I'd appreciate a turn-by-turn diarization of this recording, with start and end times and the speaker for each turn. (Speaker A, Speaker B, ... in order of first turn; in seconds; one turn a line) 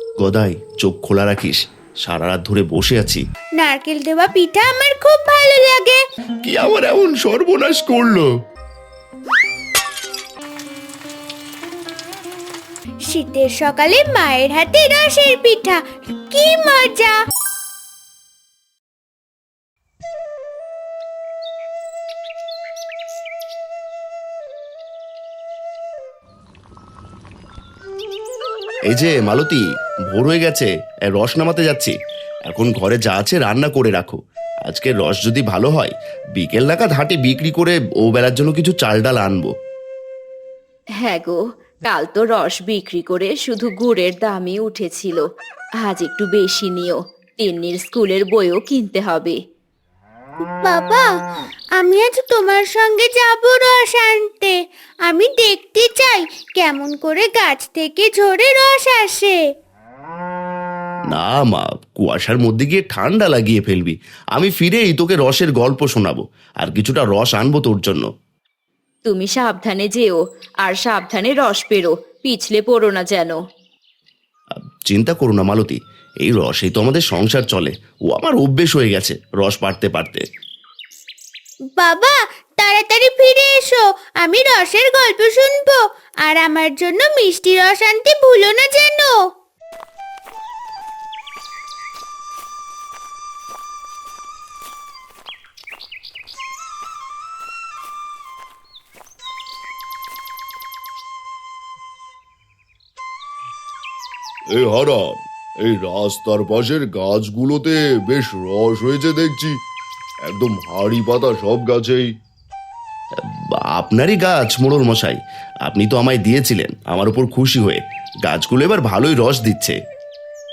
Speaker A: 0.2-3.2
Speaker B: 3.6-6.0
Speaker A: 6.4-8.3
Speaker B: 13.1-17.1
Speaker A: 28.9-31.9
Speaker A: 32.5-39.5
Speaker C: 41.0-45.2
Speaker C: 45.8-49.4
Speaker B: 50.6-51.0
Speaker B: 51.8-54.5
Speaker B: 55.0-59.4
Speaker A: 61.1-68.0
Speaker C: 69.1-73.3
Speaker A: 74.9-80.2
Speaker B: 81.8-89.1
Speaker D: 104.5-109.6
Speaker D: 110.2-112.1
Speaker A: 113.5-119.8